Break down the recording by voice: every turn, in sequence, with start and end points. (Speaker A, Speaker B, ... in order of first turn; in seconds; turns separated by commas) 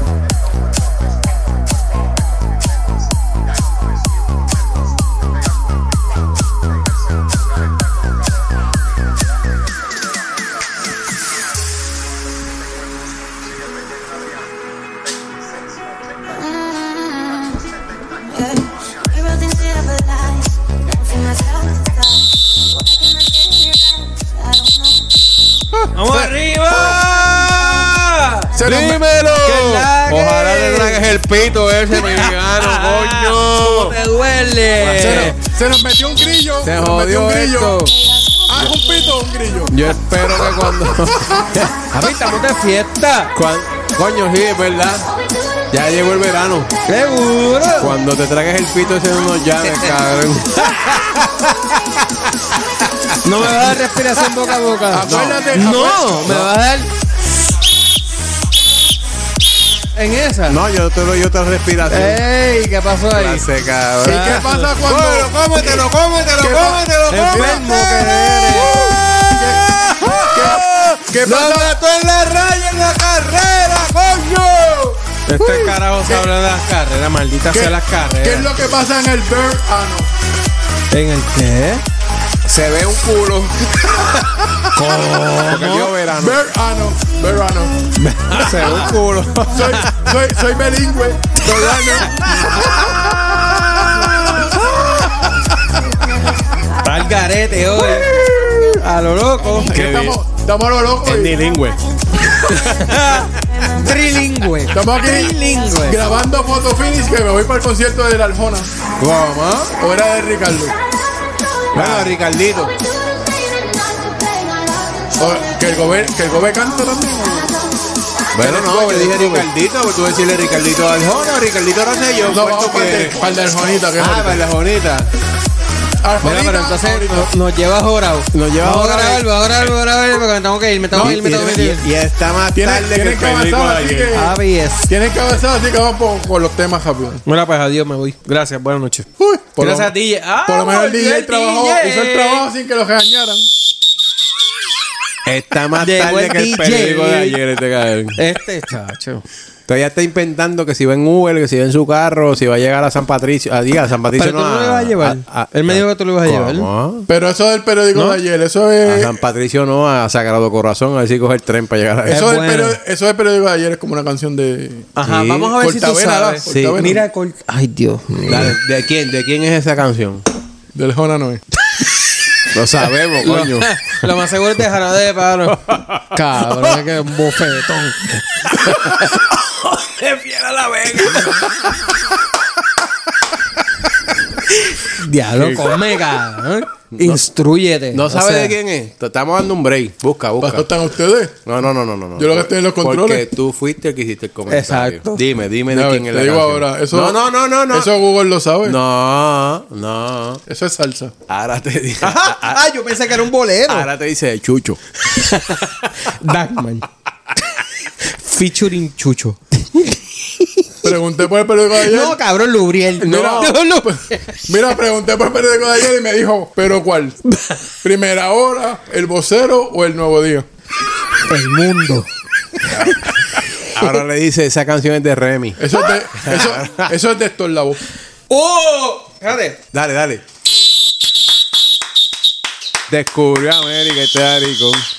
Speaker A: 0.3-1.1, Speaker A: 2.2-3.1, Speaker A: 3.8-4.6, Speaker A: 15.9-16.4, Speaker B: 25.7-26.3, Speaker C: 25.9-28.6, Speaker A: 26.7-28.0, Speaker B: 28.5-29.1, Speaker A: 28.6-34.0, Speaker C: 29.4-31.1, Speaker C: 31.9-35.3, Speaker A: 34.8-35.3, Speaker B: 35.0-37.8, Speaker A: 36.6-37.9, Speaker B: 38.5-41.6, Speaker A: 39.7-41.8, Speaker C: 41.9-43.3, Speaker A: 43.3-45.1, Speaker A: 45.7-46.7, Speaker C: 46.9-48.0, Speaker A: 47.8-52.3, Speaker C: 49.6-50.0, Speaker C: 50.6-51.1, Speaker A: 53.1-53.5, Speaker C: 53.2-56.9, Speaker B: 54.9-56.4, Speaker A: 55.0-55.4, Speaker A: 56.3-56.5, Speaker C: 59.9-60.6, Speaker A: 60.5-62.2, Speaker C: 61.9-63.5, Speaker A: 63.1-75.0, Speaker B: 64.0-65.8, Speaker C: 64.0-64.7, Speaker B: 66.4-67.7, Speaker C: 67.1-68.9, Speaker B: 69.3-71.8, Speaker C: 75.2-78.6, Speaker B: 75.4-76.3, Speaker B: 77.5-80.1, Speaker C: 80.9-81.8, Speaker A: 82.4-84.3, Speaker C: 84.7-85.9, Speaker A: 85.4-86.4, Speaker B: 86.1-87.8, Speaker C: 88.0-89.0, Speaker A: 88.3-90.1, Speaker B: 89.5-95.1, Speaker A: 91.6-94.6, Speaker C: 96.8-98.2, Speaker A: 98.1-98.7, Speaker B: 98.1-98.8, Speaker C: 98.7-99.7, Speaker A: 99.6-100.2, Speaker B: 99.6-101.5, Speaker A: 101.0-101.8, Speaker A: 102.4-103.7, Speaker C: 102.4-106.0, Speaker B: 104.7-108.7, Speaker A: 109.0-109.8, Speaker B: 109.8-110.8, Speaker A: 111.7-112.7, Speaker C: 111.8-112.1, Speaker B: 115.2-117.5, Speaker A: 118.3-123.2, Speaker C: 118.4-119.5, Speaker B: 122.3-124.4, Speaker A: 124.0-125.1, Speaker B: 126.0-127.3, Speaker C: 126.2-131.9, Speaker A: 128.3-129.3, Speaker A: 130.9-134.2, Speaker B: 132.5-134.3, Speaker C: 134.1-134.9, Speaker B: 134.9-137.2, Speaker C: 137.2-139.1, Speaker B: 139.2-139.9, Speaker C: 139.6-142.4, Speaker B: 140.4-143.5, Speaker A: 145.2-148.2, Speaker C: 145.8-147.4, Speaker C: 148.2-149.2, Speaker A: 149.7-157.1, Speaker C: 154.2-156.7, Speaker B: 157.1-159.2, Speaker A: 158.8-162.2, Speaker B: 162.1-164.9, Speaker C: 162.1-162.8, Speaker C: 164.9-168.6, Speaker A: 165.0-165.5, Speaker B: 165.5-167.1, Speaker A: 166.5-166.8, Speaker A: 168.3-170.2, Speaker B: 170.7-171.4, Speaker A: 172.5-174.0, Speaker C: 173.2-175.6, Speaker A: 175.5-176.9, Speaker C: 176.1-179.2, Speaker A: 178.5-182.0, Speaker C: 181.1-181.5, Speaker C: 184.7-188.6, Speaker A: 185.3-187.2, Speaker A: 187.9-190.7, Speaker B: 190.4-191.4, Speaker A: 191.4-197.9, Speaker B: 192.2-193.2, Speaker C: 194.5-195.2, Speaker B: 195.7-198.8, Speaker A: 198.7-200.4, Speaker B: 200.5-201.1, Speaker A: 201.3-202.6, Speaker C: 202.0-203.9, Speaker A: 203.7-204.8, Speaker C: 205.1-206.9, Speaker A: 205.7-206.1, Speaker C: 207.5-210.7, Speaker B: 210.8-212.2, Speaker C: 211.8-214.4, Speaker A: 213.0-213.6, Speaker B: 213.0-217.2, Speaker C: 217.3-217.7, Speaker B: 217.8-220.5, Speaker C: 221.3-222.1, Speaker C: 222.7-223.0, Speaker A: 222.7-223.1, Speaker A: 223.7-225.6, Speaker C: 223.7-223.9, Speaker B: 225.6-227.8, Speaker A: 226.1-226.9, Speaker C: 228.3-229.6, Speaker A: 229.7-230.2, Speaker A: 232.9-234.8